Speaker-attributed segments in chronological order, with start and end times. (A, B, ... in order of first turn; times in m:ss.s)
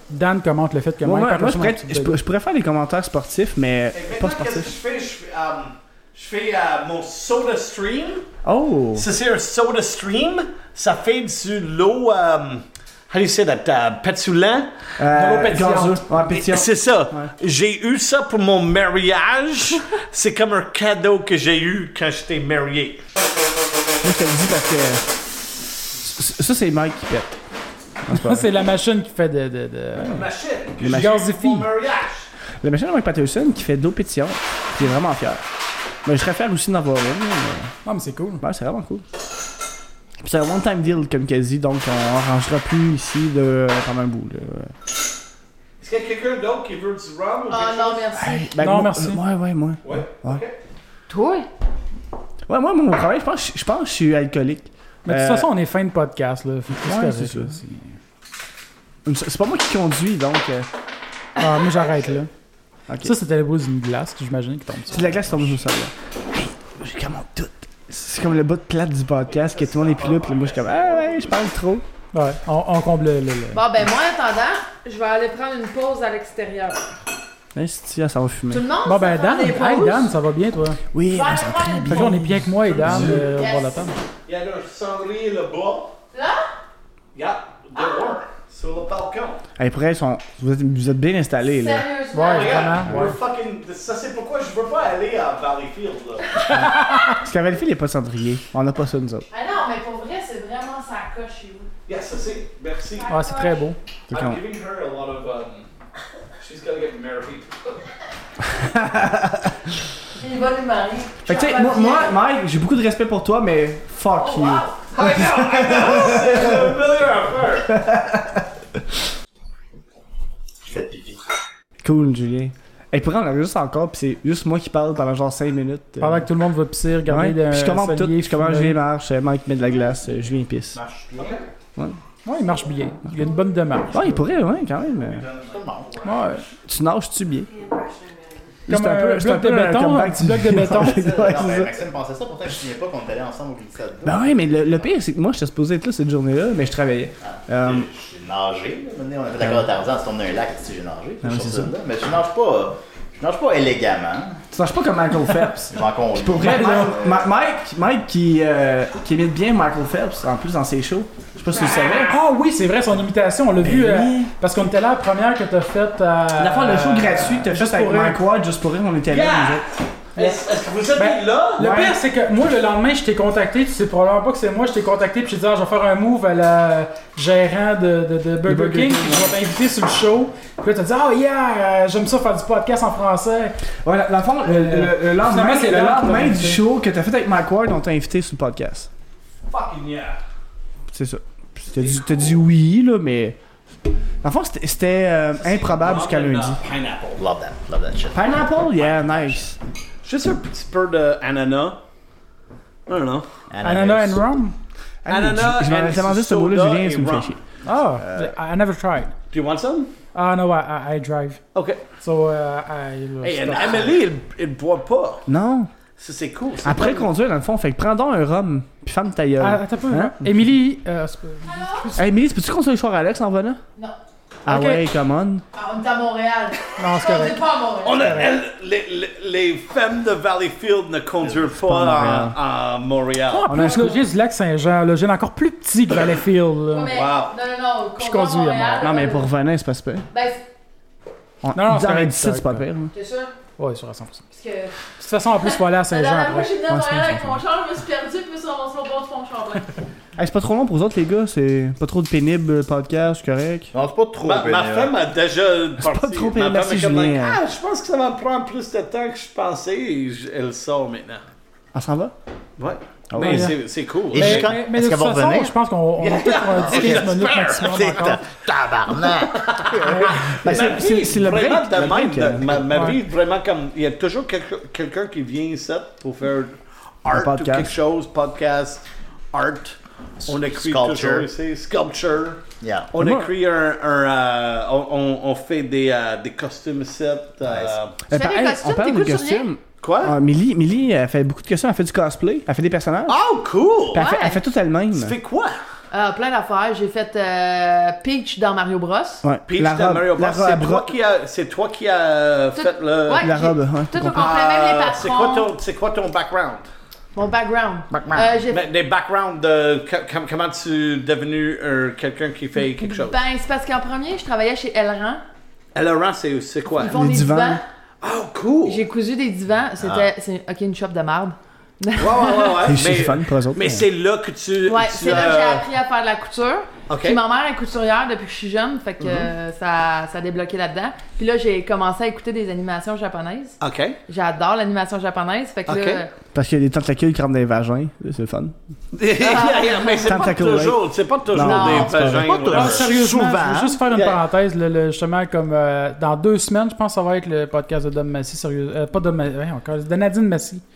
0:00.1-0:02.2 A
0:01.0-0:04.7 B
0:03.9-0:08.3 C
0:08.4-0:09.1 B
0:08.9-0:14.7 C
0:15.0-0:17.3 B
0:15.1-0:16.0 A
0:16.2-0:23.0 C
0:24.0-0:25.2 B
0:26.0-0:27.4 B
0:28.0-0:28.4 B
0:28.1-0:30.2 A
0:30.1-0:32.3 C
0:30.8-0:31.1 B
0:30.9-0:31.7 A
0:32.6-0:35.4 B
0:36.0-0:37.7 B
0:37.8-0:38.4 A
0:38.4-0:39.0 B
0:40.2-0:44.7 B
0:45.8-0:48.0 C
0:47.5-0:48.5 D
0:48.2-0:50.4 B
0:48.6-0:49.2 A
0:49.8-0:50.6 C
0:51.1-0:51.4 D
0:52.5-0:55.5 B
0:55.0-0:57.9 A
0:56.8-0:57.6 B
0:59.0-1:00.7 B
1:01.4-1:02.3 A
1:02.9-1:03.1 B
1:03.0-1:05.2 A
1:04.9-1:11.8 B
1:09.3-1:11.3 C
1:12.1-1:13.6 A
1:13.5-1:16.8 D
1:17.5-1:18.6 B
1:18.5-1:20.1 D
1:18.8-1:20.8 A
1:20.9-1:23.2 B
1:21.1-1:22.1 D
1:21.8-1:24.0 A
1:22.9-1:23.1 C
1:23.2-1:23.8 D
1:24.3-1:25.9 C
1:26.1-1:26.4 D
1:27.1-1:29.4 C
1:27.8-1:28.1 D
1:29.6-1:31.8 B
1:31.5-1:32.8 D
1:32.1-1:33.1 A
1:32.2-1:36.3 C
1:36.5-1:37.2 A
1:36.6-1:39.2 B
1:39.3-1:41.7 D
1:41.9-1:43.1 C
1:43.0-1:43.5 D
1:43.1-1:43.8 A
1:44.1-1:44.4 B
1:44.1-1:45.7 C
1:46.4-1:47.5 C
1:48.7-1:49.3 B
1:50.2-1:52.1 D
1:51.2-1:56.6 B
1:54.2-1:54.8 D
1:54.9-1:57.7 C
1:57.7-1:58.4 B
2:00.7-2:01.2 E
2:01.8-2:06.3 B
2:06.0-2:08.8 A
2:07.1-2:10.8 B
2:10.7-2:11.4 E
2:11.1-2:11.4 C
2:12.2-2:14.2 A
2:13.9-2:15.3 B
2:15.0-2:16.4 E
2:16.0-2:16.4 A
2:16.6-2:17.5 B
2:18.7-2:21.7 B
2:18.7-2:21.2 A
2:20.8-2:24.8 E
2:24.0-2:27.9 B
2:27.2-2:34.4 E
2:29.4-2:29.6 B
2:31.2-2:31.7 B
2:34.5-2:42.1 B
2:35.7-2:37.3 E
2:36.4-2:36.9 A
2:41.7-2:48.2 A
2:43.6-2:44.3 B
2:46.4-2:49.6 B
2:49.1-2:51.8 C
2:51.0-3:03.6 A
2:51.6-2:52.0 B
2:58.4-2:59.3 B
3:03.8-3:08.9 B
3:04.4-3:06.6 A
3:09.5-3:10.2 C
3:10.9-3:13.4 B
3:11.7-3:12.4 C
3:14.2-3:16.6 B
3:15.4-3:17.2 C
3:17.2-3:18.3 E
3:18.1-3:19.6 B
3:18.7-3:19.4 C
3:20.0-3:21.8 C
3:22.9-3:23.3 C
3:23.5-3:24.2 E
3:23.6-3:24.6 A
3:25.0-3:27.4 B
3:25.1-3:27.4 C
3:27.6-3:29.1 A
3:29.3-3:29.9 C
3:30.1-3:31.4 A
3:31.5-3:31.8 C
3:32.0-3:33.9 A
3:33.2-3:35.2 C
3:35.3-3:35.7 B
3:36.0-3:37.1 C
3:36.6-3:40.4 B
3:39.4-3:42.0 A
3:41.4-3:42.0 D
3:42.0-3:43.6 B
3:44.4-3:45.4 B
3:44.5-3:44.8 A
3:45.5-3:48.3 D
3:46.8-3:48.3 A
3:47.8-3:53.5 C
3:51.6-3:52.4 B
3:53.3-3:56.9 A
3:53.5-3:54.0 B
3:56.7-3:59.3 D
3:56.9-3:57.3 C
3:58.0-3:59.0 A
3:58.8-4:00.0 B
4:00.1-4:00.4 D
4:01.4-4:02.9 B
4:01.5-4:02.6 A
4:02.9-4:03.3 D
4:03.6-4:04.2 A
4:04.3-4:04.8 D
4:05.0-4:06.5 A
4:05.8-4:09.8 D
4:06.7-4:07.4 B
4:10.2-4:13.7 B
4:13.7-4:14.9 E
4:14.2-4:21.2 C
4:15.8-4:17.4 B
4:21.7-4:22.1 B
4:22.6-4:24.5 C
4:23.1-4:23.5 B
4:23.2-4:23.6 A
4:24.1-4:25.5 E
4:24.1-4:28.2 A
4:26.0-4:28.1 C
4:26.6-4:27.1 E
4:27.6-4:30.6 E
4:29.0-4:48.0 C
4:29.8-4:30.2 A
4:30.1-4:32.6 B
4:32.7-4:33.0 A
4:37.1-4:37.7 B
4:40.4-4:41.3 E
4:42.6-4:42.9 E
4:42.9-4:43.3 B
4:47.4-4:47.8 E
4:48.1-4:49.5 D
4:48.1-4:53.2 B
4:49.8-4:50.2 C
4:53.1-4:54.1 C
4:53.9-4:55.2 B
4:53.9-4:54.4 D
4:54.9-4:55.6 C
4:55.9-4:59.2 D
4:59.2-5:00.9 B
4:59.4-5:03.3 C
5:02.5-5:05.5 D
5:03.2-5:04.3 B
5:04.1-5:06.7 C
5:07.1-5:08.6 D
5:07.9-5:08.2 E
5:08.5-5:13.2 C
5:12.8-5:15.2 D
5:15.7-5:17.0 C
5:16.8-5:17.6 D
5:16.8-5:17.6 B
5:18.0-5:18.8 C
5:18.6-5:22.6 D
5:19.8-5:20.1 E
5:22.0-5:25.6 C
5:22.6-5:23.8 B
5:24.6-5:33.6 D
5:26.9-5:27.2 C
5:33.6-5:34.0 C
5:34.1-5:36.1 D
5:35.7-5:36.0 C
5:36.3-5:38.5 B
5:38.9-5:42.9 C
5:39.2-5:40.2 D
5:40.0-5:42.3 B
5:41.4-5:42.0 D
5:42.1-5:43.8 E
5:42.5-5:50.6 A
5:43.9-5:44.2 C